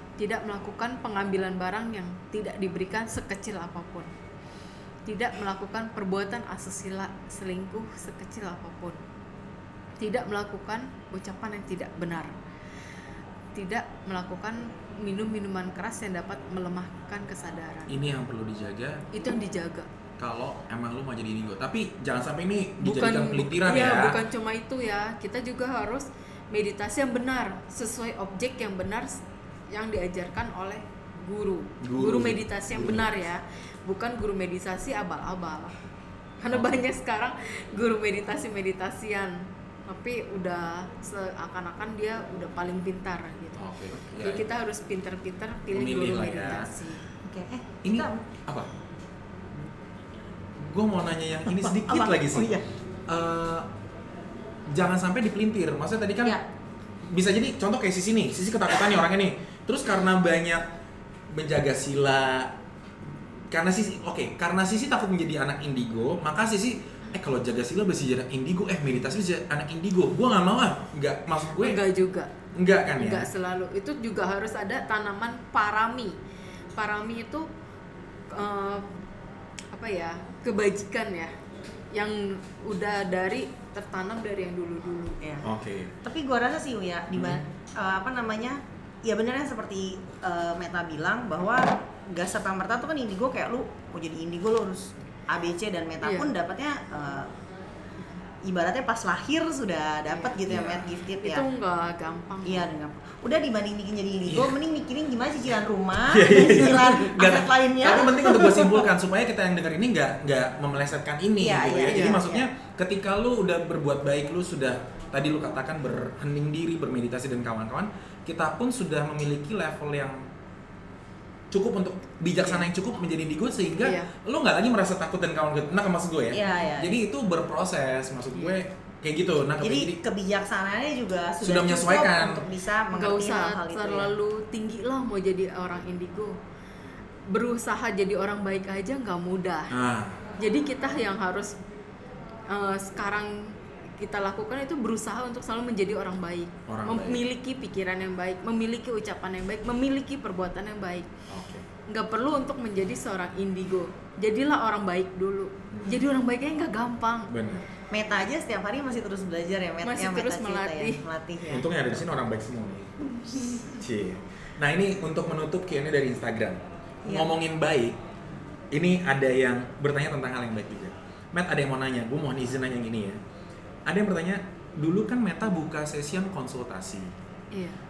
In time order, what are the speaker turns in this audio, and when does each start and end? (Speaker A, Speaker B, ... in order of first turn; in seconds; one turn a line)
Speaker A: 0.2-4.1
Speaker A: 5.1-9.0
Speaker A: 10.0-12.3
Speaker A: 13.5-17.9
Speaker B: 17.9-19.0
Speaker A: 19.1-19.9
Speaker B: 20.2-24.2
Speaker A: 22.8-35.8
Speaker B: 31.8-33.1
Speaker A: 36.4-43.6
Speaker B: 36.5-36.8
Speaker B: 43.6-44.5
Speaker A: 44.2-47.1
Speaker B: 45.7-46.7
Speaker C: 47.2-48.2
Speaker B: 47.8-48.7
Speaker B: 50.6-53.7
Speaker C: 51.4-52.6
Speaker B: 54.7-56.4
Speaker B: 57.1-60.7
Speaker B: 61.3-62.5
Speaker B: 63.5-71.8
Speaker A: 71.6-72.3
Speaker B: 72.5-73.3
Speaker A: 73.0-76.2
Speaker A: 76.8-77.5
Speaker A: 78.3-78.9
Speaker A: 79.7-81.3
Speaker A: 81.9-85.2
Speaker B: 85.4-85.9
Speaker C: 86.0-97.3
Speaker B: 87.1-87.4
Speaker A: 96.0-96.3
Speaker C: 98.4-101.5
Speaker A: 100.1-100.4
Speaker B: 100.5-100.9
Speaker A: 101.2-102.7
Speaker C: 102.4-108.9
Speaker B: 104.3-104.6
Speaker B: 106.1-120.2
Speaker C: 111.4-112.5
Speaker A: 111.9-112.2
Speaker B: 121.5-130.0
Speaker A: 123.8-124.1
Speaker C: 126.3-127.0
Speaker C: 129.6-134.1
Speaker B: 131.4-132.4
Speaker A: 132.9-136.4
Speaker A: 137.3-139.7
Speaker B: 139.7-140.2
Speaker A: 140.4-141.6
Speaker A: 142.5-151.1
Speaker B: 146.7-147.2
Speaker B: 151.3-151.7
Speaker A: 151.9-157.3
Speaker B: 155.7-156.0
Speaker B: 157.3-157.7
Speaker C: 157.9-162.1
Speaker A: 159.8-161.0
Speaker B: 161.5-162.9
Speaker C: 163.1-163.7
Speaker B: 163.7-168.0
Speaker C: 167.1-167.3
Speaker B: 168.7-173.2
Speaker B: 173.9-177.2
Speaker A: 177.5-177.8